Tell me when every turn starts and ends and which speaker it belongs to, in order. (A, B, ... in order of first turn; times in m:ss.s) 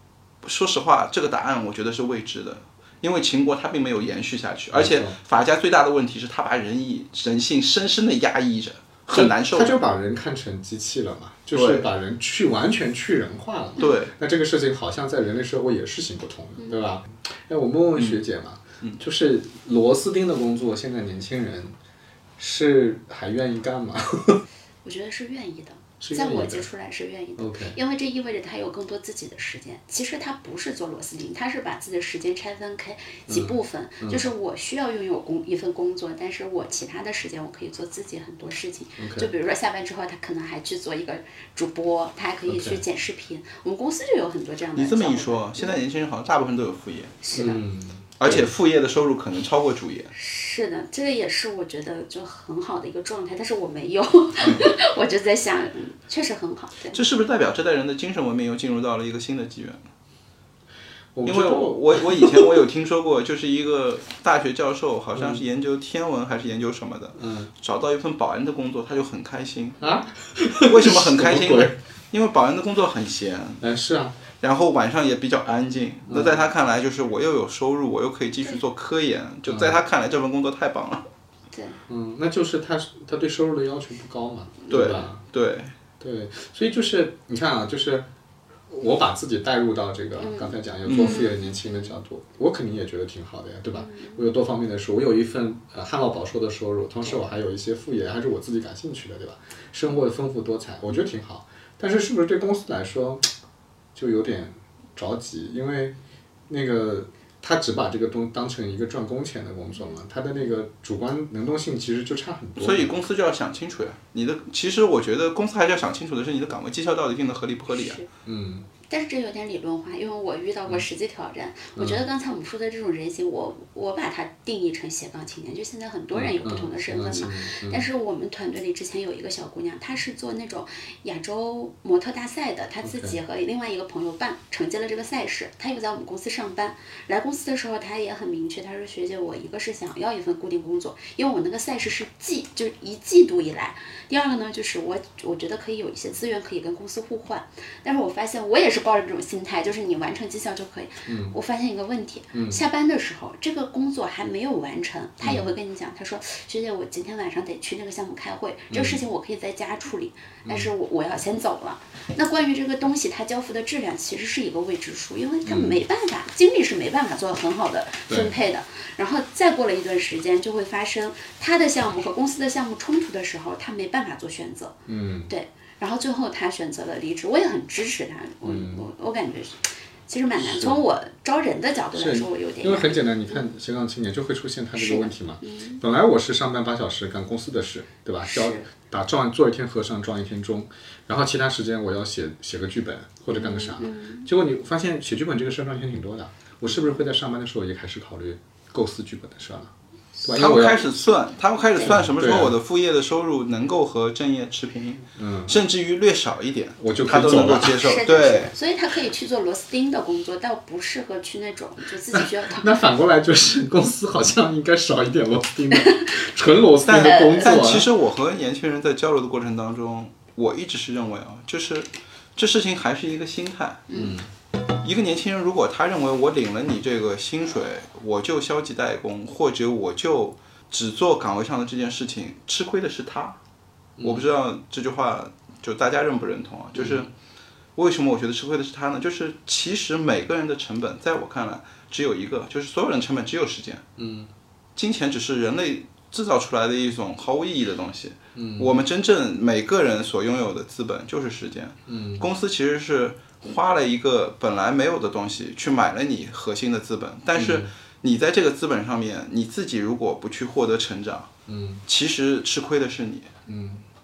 0:00.4-0:09.8 A
0:04.7-0:05.2 B
0:09.1-0:21.8 B
0:11.5-0:11.9 A
0:13.8-0:14.1 A
0:22.4-0:24.4 B
0:24.8-0:45.8 C
0:26.0-0:26.7 B
0:27.4-0:27.8 B
0:33.3-0:34.2 B
0:39.0-0:39.3 B
0:42.5-0:42.8 B
0:44.7-0:47.2 A
0:47.2-0:47.6 C
0:47.3-0:48.5 B
0:48.2-0:50.1 A
0:50.1-0:57.0 C
0:54.4-0:54.7 A
0:56.9-0:59.9 A
1:01.1-1:02.6 B
1:01.2-1:09.8 A
1:05.2-1:05.4 B
1:07.2-1:07.5 B
1:09.8-1:11.7 B
1:10.6-1:13.6 A
1:13.6-1:14.2 B
1:14.4-1:21.0 A
1:16.1-1:16.4 B
1:19.5-1:19.8 B
1:21.5-1:21.8 C
1:21.9-1:25.2 B
1:24.7-1:25.7 A
1:26.0-1:28.0 B
1:28.7-1:43.3 B
1:30.2-1:31.9 C
1:30.8-1:31.2 A
1:33.8-1:34.2 C
1:43.9-1:45.9 B
1:46.5-1:52.9 B
1:49.7-1:50.0 C
1:52.6-1:58.0 A
1:57.7-1:58.1 C
1:58.2-1:58.7 B
1:58.9-3:03.4 C
2:01.8-2:02.0 B
2:06.1-2:07.9 B
2:12.8-2:13.2 B
2:31.0-2:31.4 B
2:32.3-2:32.6 B
2:35.2-2:35.5 B
2:38.7-2:39.0 B
2:40.4-2:40.7 B
2:45.4-2:45.8 B
2:48.1-2:48.4 B
2:54.9-2:55.3 B
2:58.4-2:58.9 B
3:00.4-3:00.8 B
3:01.9-3:19.7 B
3:04.8-3:05.8 C
3:08.2-3:08.6 C
3:13.3-3:14.3 C
3:20.2-3:20.9 B
3:20.3-3:28.5 A
3:20.4-3:20.9 C
3:21.8-3:22.6 B
3:25.2-3:25.6 B
3:26.8-3:28.0 B
3:27.3-3:32.8 C
3:32.1-3:37.9 B
3:35.7-3:36.1 C
3:36.8-3:43.9 A
3:36.9-3:37.7 C
3:43.9-3:44.2 C
3:43.9-3:44.3 B
3:44.8-3:53.4 A
3:54.0-3:54.2 B
3:54.0-3:57.1 A
3:56.7-3:57.1 B
3:57.8-4:03.8 A
4:04.0-4:04.3 B
4:04.8-4:21.3 A
4:08.3-4:08.7 B
4:11.8-4:12.3 B
4:17.3-4:17.7 B
4:21.5-4:21.8 B
4:21.8-4:23.3 A
4:23.5-4:23.8 B